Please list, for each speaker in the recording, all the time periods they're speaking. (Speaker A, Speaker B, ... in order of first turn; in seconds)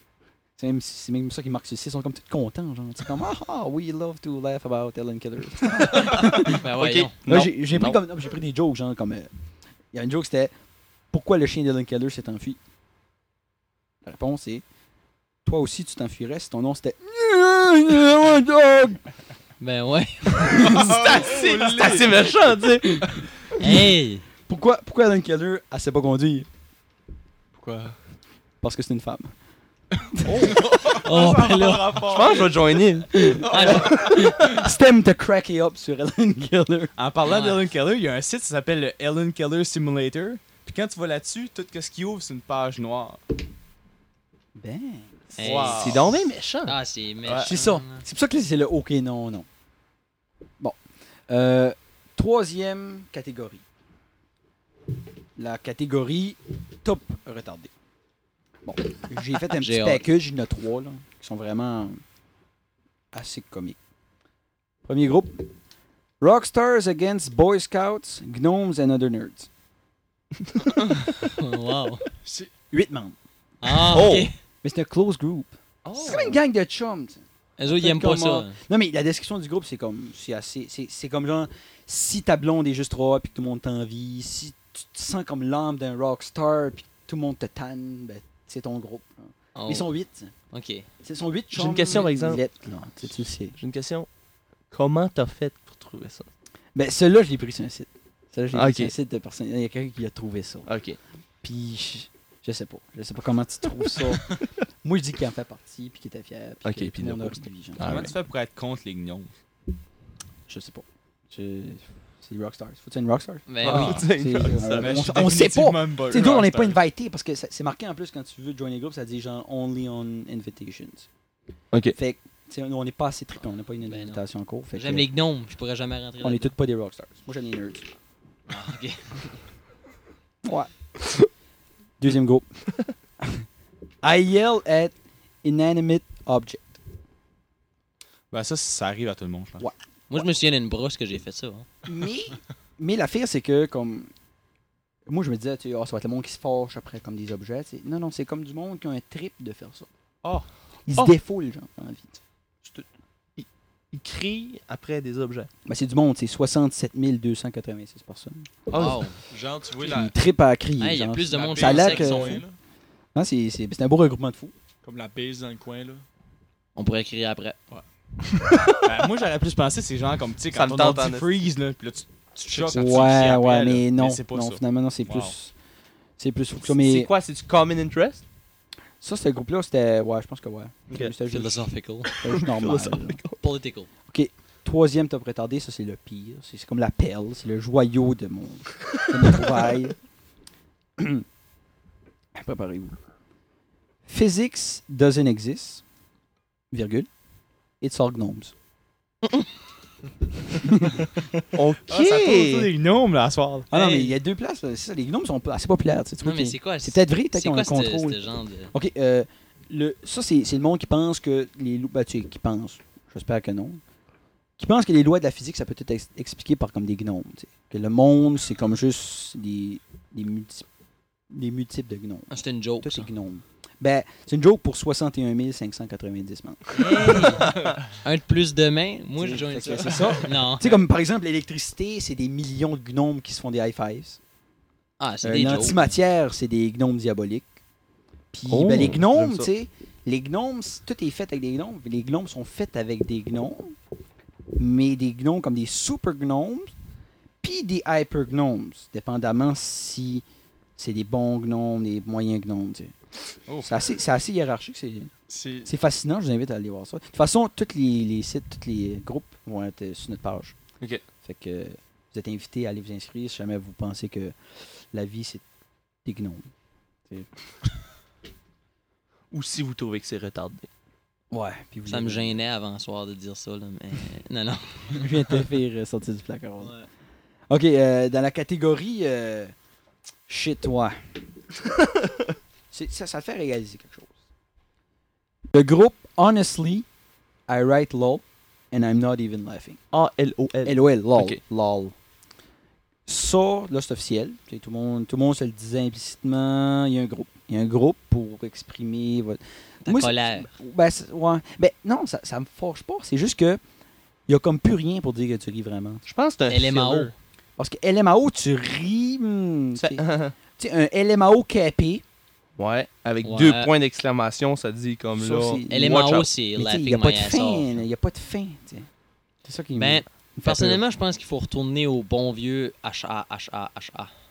Speaker A: 0.6-6.5, 7.3-9.3, 9.9-10.5, 11.1-12.6, 14.0-14.6, 15.4-19.0, 24.5-26.5, 28.6-29.3, 30.3-30.5, 33.2-36.9, 44.5-45.2, 47.4-49.5, 50.6-53.6, 55.4-57.7, 58.6-62.0, 63.1-63.8, 64.8-65.5, 66.2-69.5, 72.7-73.2, 74.6-90.3, 91.0-93.6, 96.8-100.7, 101.4-108.1, 110.5-121.1, 121.9-125.1, 126.2-127.9, 130.4-130.7, 132.0-132.5, 134.0-136.8, 139.6-140.2, 141.9-144.1, 145.1-149.9, 150.9-152.2, 155.7-158.5, 159.8-162.4, 163.1-164.5, 172.7-175.5, 176.2-177.1, 179.0-181.7, 182.2-183.2, 184.1-190.0, 191.0-191.2, 192.3-193.0, 194.1-195.8, 196.7-197.1, 197.8-198.5, 203.7-213.8, 214.6-220.7, 221.3-227.4, 229.2-234.2, 235.2-237.5, 238.3-243.8, 244.6-246.7, 247.4-250.2, 250.8-252.9, 253.6-255.1, 255.6-260.6, 261.2-264.4, 264.9-265.4, 266.1-266.5, 271.3-272.4, 274.9-276.7, 277.5-279.5, 280.3-281.0, 282.7-284.1, 285.5-286.9, 287.5-289.8, 290.6-291.9, 293.1-303.6, 304.3-306.0, 307.6-312.0, 315.1-316.0, 316.6-318.9, 319.4-320.8
Speaker B: 6.5-7.2, 19.6-20.7, 23.6-24.2, 31.0-32.1, 33.5-34.1, 37.2-37.6, 45.4-46.0, 46.7-48.0, 59.6-60.0, 71.4-72.1, 73.6-74.4, 77.6-78.6, 89.5-89.9, 90.5-90.9, 113.5-114.0, 123.9-124.2, 124.7-126.5, 128.5-129.4, 140.1-141.7, 158.7-159.2, 160.8-162.4, 166.8-167.6, 181.3-182.1, 183.4-183.9, 206.2-208.7, 222.3-223.1, 226.7-227.5, 228.0-230.8, 235.0-235.9, 271.9-275.1, 276.6-276.9, 299.9-300.5, 306.5-307.1, 313.2-313.7, 315.7-317.8, 319.8-324.1
Speaker C: 6.8-8.0, 20.8-23.0, 32.1-33.1, 33.6-34.2, 45.8-46.8, 73.9-74.3, 75.8-76.4, 91.5-92.4, 93.6-94.1, 94.7-96.3, 98.5-98.9, 100.7-101.0, 106.7-107.1, 107.8-108.1, 113.6-114.9, 153.4-155.5, 158.7-159.0, 170.5-171.3, 176.7-178.2, 182.1-183.4, 201.5-202.7, 238.5-239.5, 269.3-270.7, 289.9-291.4, 306.1-307.1, 309.8-310.4, 312.6-316.3
Speaker D: 20.9-22.1, 30.2-32.5, 37.0-43.2, 45.4-46.1, 47.2-47.5, 107.8-109.3, 113.7-114.1, 114.6-116.8, 138.3-139.6, 168.8-175.3, 201.9-204.1, 253.5-253.7
Speaker E: 27.6-28.0, 72.2-72.5, 159.3-160.1, 161.3-162.6, 164.8-166.0, 172.5-173.2, 255.3-255.7